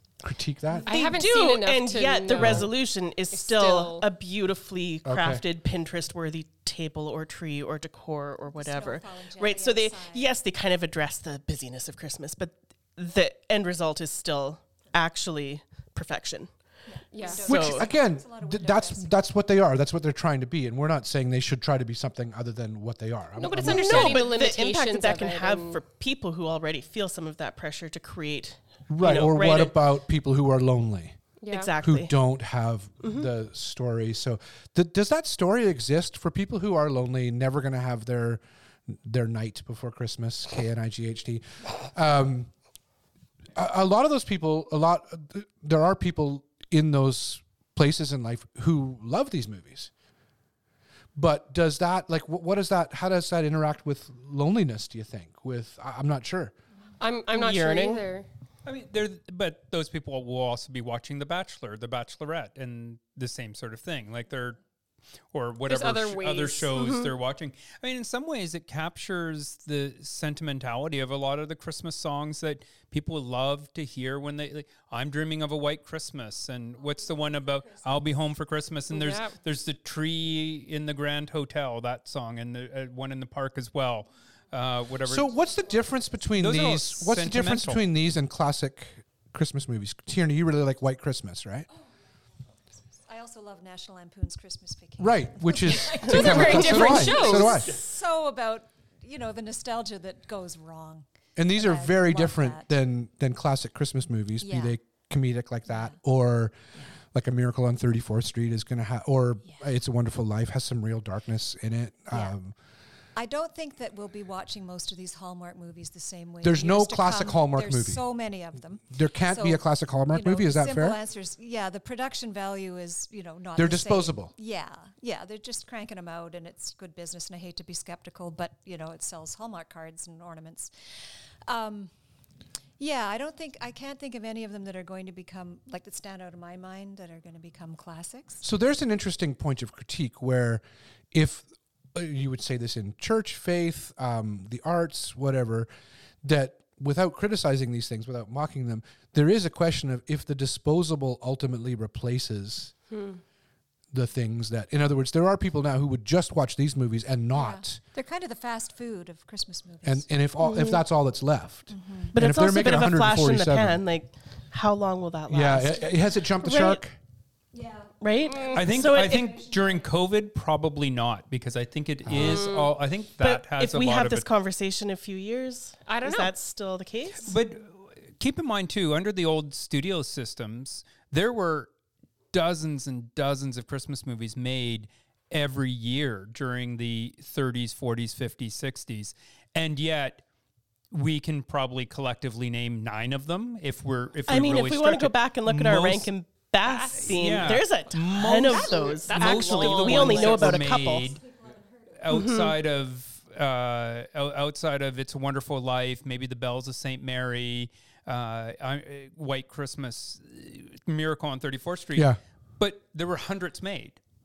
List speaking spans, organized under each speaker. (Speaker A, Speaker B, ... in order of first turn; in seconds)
Speaker A: 0.2-0.9, 2.4-2.7, 5.0-5.4, 17.5-24.2, 28.9-31.2, 31.8-42.5, 43.5-49.9, 51.1-56.5, 85.0-91.7, 95.0-97.7, 101.3-106.6, 107.1-112.5, 116.4-118.0, 118.9-121.0, 123.5-124.3, 138.4-145.7, 146.2-152.7, 153.9-157.8, 159.8-163.8, 165.3-166.9, 172.0-172.4, 211.9-212.2
Speaker B: 0.9-2.7, 3.3-4.0, 17.1-17.5, 23.4-25.8, 31.4-31.7, 57.0-58.3, 65.7-67.1, 78.9-79.3, 96.0-97.6, 152.9-153.2, 168.2-168.7, 172.2-172.7, 175.8-176.3, 196.6-197.9, 198.5-200.7
Speaker C: 0.9-16.5, 17.4-17.9, 23.6-29.8, 31.5-32.1, 33.0-33.3, 57.3-58.0, 162.1-166.8, 168.0-169.3, 173.2-177.3, 194.3-201.2, 202.1-202.6
Speaker D: 8.5-10.3, 16.9-19.1, 93.0-102.7, 104.4-104.8, 105.7-105.9, 112.1-112.3, 113.2-130.7, 131.5-131.9, 132.8-138.4, 157.3-160.1, 161.7-162.1, 167.5-169.8, 198.6-199.1, 201.2-201.8
Speaker E: 58.6-64.6, 65.3-85.3, 86.3-87.8, 168.5-174.2, 177.2-181.7, 182.3-190.2, 190.9-196.1, 197.0-201.2, 202.0-214.0